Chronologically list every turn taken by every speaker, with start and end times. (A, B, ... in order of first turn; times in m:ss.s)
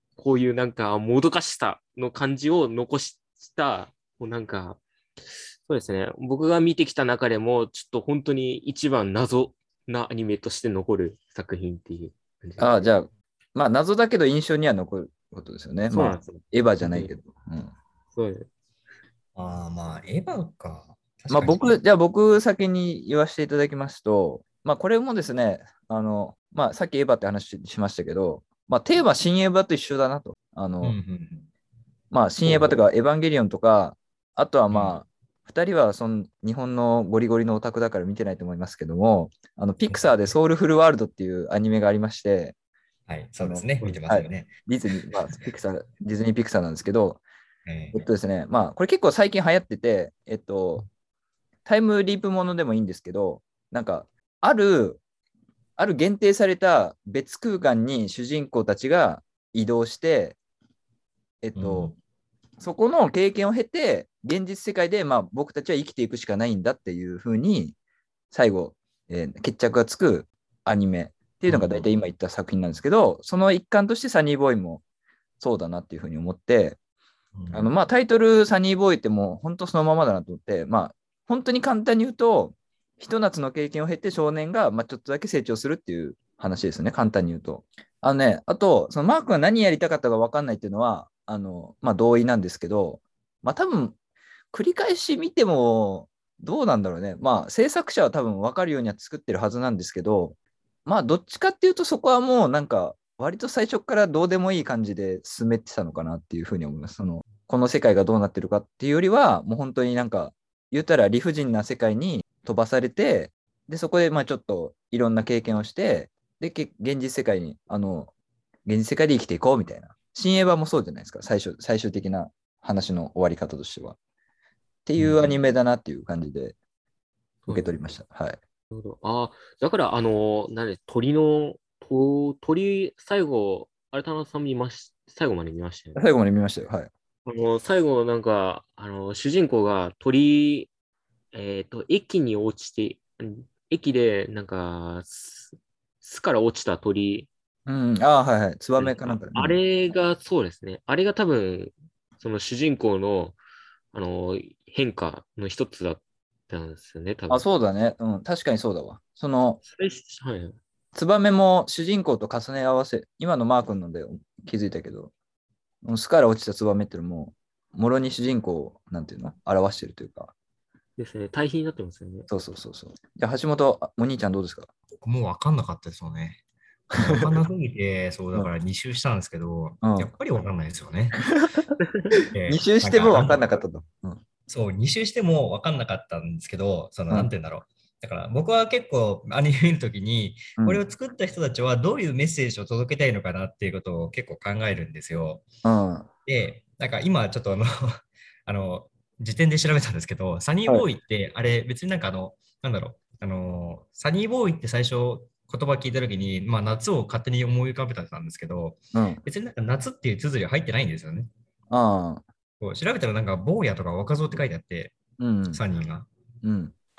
0:00.2-0:04.8 A
0:05.6-0:12.9 A
0:12.6-0:17.7 B
0:15.9-0:17.1 A
0:18.1-0:18.5 A
0:19.4-0:21.8 C
0:21.3-0:31.0 B
0:30.8-0:31.5 C
0:32.1-0:42.5 B
0:34.7-0:35.0 C
0:39.9-0:40.3 C
0:43.1-0:44.5 C
0:43.4-0:47.2 B
0:45.1-0:45.6 C
0:47.6-0:48.0 C
0:47.9-0:50.9 B
0:51.6-0:55.0 B
0:55.8-1:00.4 B
1:01.4-1:02.0 B
1:01.6-1:02.0 C
1:02.6-1:07.8 B
1:08.3-1:14.8 B
1:11.5-1:11.9 C
1:15.4-1:16.8 B
1:17.3-1:17.7 C
1:17.5-1:34.0 B
1:34.5-1:58.1 B
1:58.6-2:04.0 B
2:04.8-2:06.6 B
2:05.0-2:05.4 C
2:07.4-2:07.8 A
2:07.5-2:08.4 B
2:08.7-2:16.0 A
2:15.9-2:16.9 B
2:17.2-2:20.7 A
2:21.3-2:27.3 A
2:27.6-2:29.6 B
2:28.8-2:33.4 A
2:33.9-2:37.5 A
2:37.3-2:39.6 B
2:39.6-2:40.6 A
2:40.9-2:45.1 B
2:45.8-2:50.3 B
2:51.0-2:52.3 A
2:52.3-2:54.7 B
2:55.0-3:01.2 C
2:59.8-3:00.1 B
3:01.3-3:01.7 B
3:01.8-3:02.2 A
3:02.3-3:03.5 C
3:02.5-3:04.2 B
3:04.5-3:15.4 C
3:15.6-3:16.1 B
3:16.2-3:31.3 C
3:28.9-3:29.2 B
3:31.7-3:32.2 B
3:32.6-3:34.9 C
3:35.2-3:35.6 B
3:35.5-3:36.1 C
3:36.4-3:36.7 B